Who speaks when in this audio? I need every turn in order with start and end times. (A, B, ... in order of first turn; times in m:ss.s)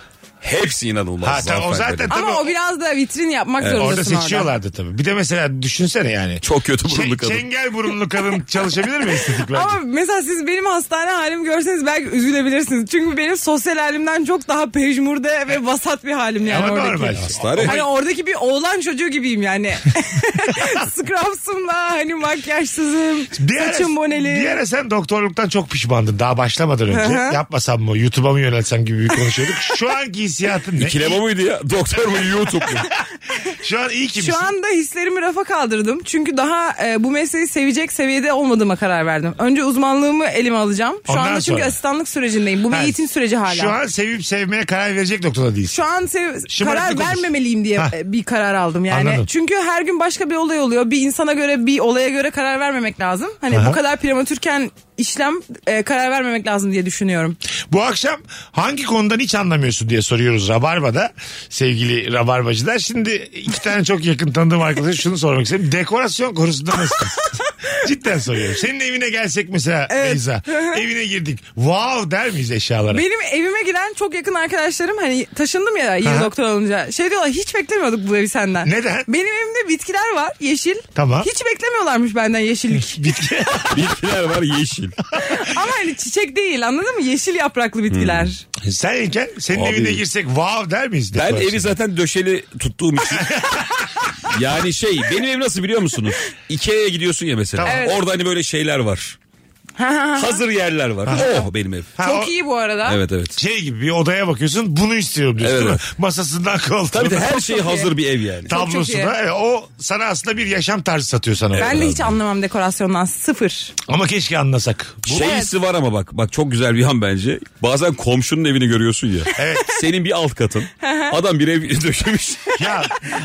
0:00.4-0:02.1 A
0:01.2-0:02.5 B
0:02.1-0:04.5 C
0:03.6-0:03.9 A
0:03.7-0:09.8 B
0:06.4-0:07.4 A
0:09.5-0:24.6 C
0:16.4-0:17.8 B
0:17.4-0:17.8 A
0:23.3-0:31.2 B
0:26.9-0:27.4 C
0:30.8-0:32.9 A
0:33.4-0:34.5 B
0:34.2-0:43.8 C
0:41.1-0:41.8 B
0:42.7-0:45.8 B
0:45.7-0:57.4 C
0:46.5-0:47.9 B
0:48.9-0:49.2 B
0:53.5-0:53.8 B
0:57.7-1:07.2 B
1:06.9-1:07.5 C
1:07.8-1:13.0 B
1:09.9-1:10.8 C
1:12.9-1:23.2 C
1:16.0-1:16.3 B
1:18.6-1:19.1 B
1:20.9-1:21.3 B
1:22.9-1:23.9 B
1:23.7-1:25.0 A
1:25.2-1:28.4 C
1:27.9-1:28.3 A
1:28.6-1:31.7 B
1:29.5-1:30.0 A
1:31.1-1:33.4 A
1:33.1-1:33.6 B
1:34.3-1:39.2 A
1:37.5-1:37.9 B
1:37.6-1:38.0 C
1:39.8-1:40.4 C
1:40.2-1:41.9 A
1:41.1-1:41.5 C
1:42.0-1:42.3 B
1:42.0-1:43.0 C
1:42.8-1:43.4 A
1:43.4-1:47.4 B
1:45.4-1:45.8 A
1:46.9-1:48.5 A
1:47.2-1:47.9 C
1:48.5-1:51.8 B
1:48.5-1:49.1 C
1:51.5-1:52.2 A
1:51.5-1:53.8 C
1:53.8-1:55.3 B
1:55.1-2:02.7 A
1:55.1-1:55.5 C
1:59.3-1:59.7 B
2:00.8-2:01.2 C
2:02.6-2:02.9 B